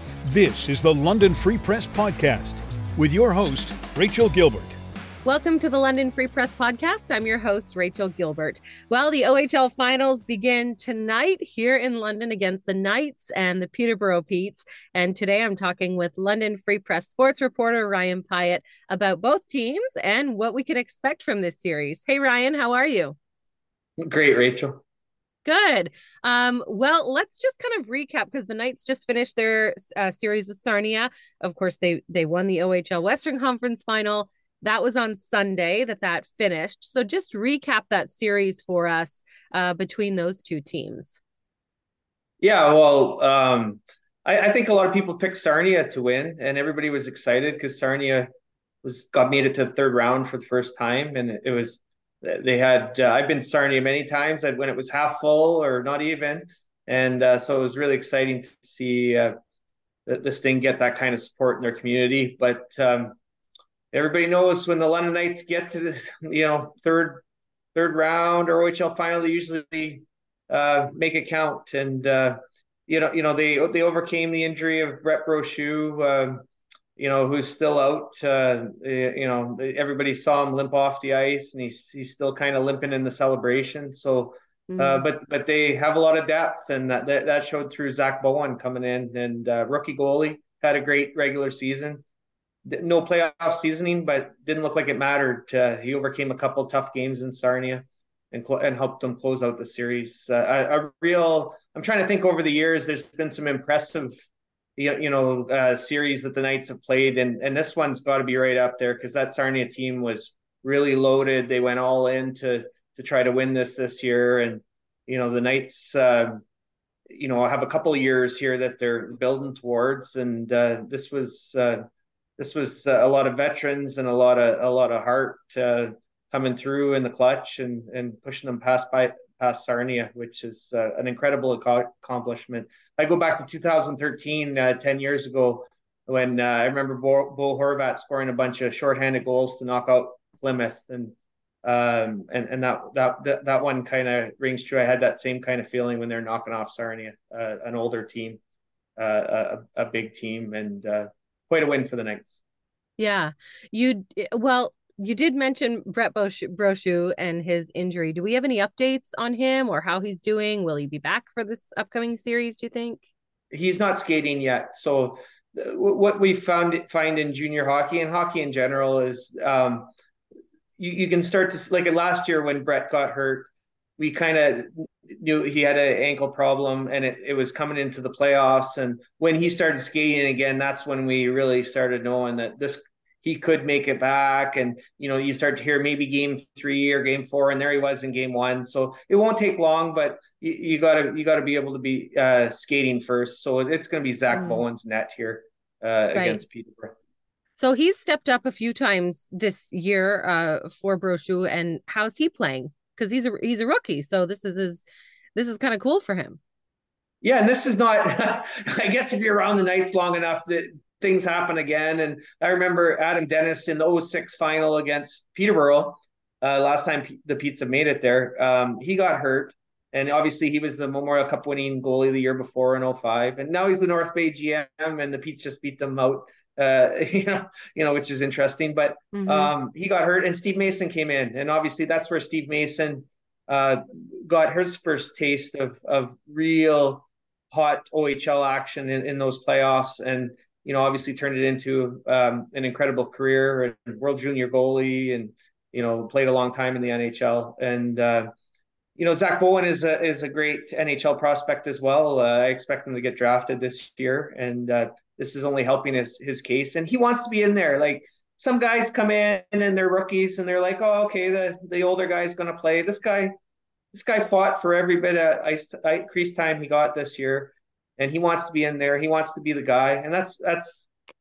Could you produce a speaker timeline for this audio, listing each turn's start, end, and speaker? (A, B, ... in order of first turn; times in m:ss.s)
0:00.2-0:04.8 A
0:05.2-0:23.2 B
0:24.0-0:24.8 C
0:25.4-0:41.2 B
0:42.4-0:48.3 C
0:48.8-0:59.3 C
1:00.0-1:03.2 C
1:03.9-1:16.4 C
1:17.0-1:32.0 C
1:24.7-1:25.0 B
1:32.6-1:44.1 C
1:44.8-1:56.4 C
1:57.1-2:01.8 C
2:02.4-2:28.4 C
2:29.0-2:32.4 C
2:33.0-2:43.0 B
2:43.5-2:49.9 C
2:50.8-3:16.9 C
3:14.3-3:14.6 B
3:16.1-3:16.4 B
3:17.5-3:26.4 B
3:27.2-4:08.3 C
3:49.1-3:49.5 B
4:09.0-4:23.3 C
4:23.9-4:30.9 C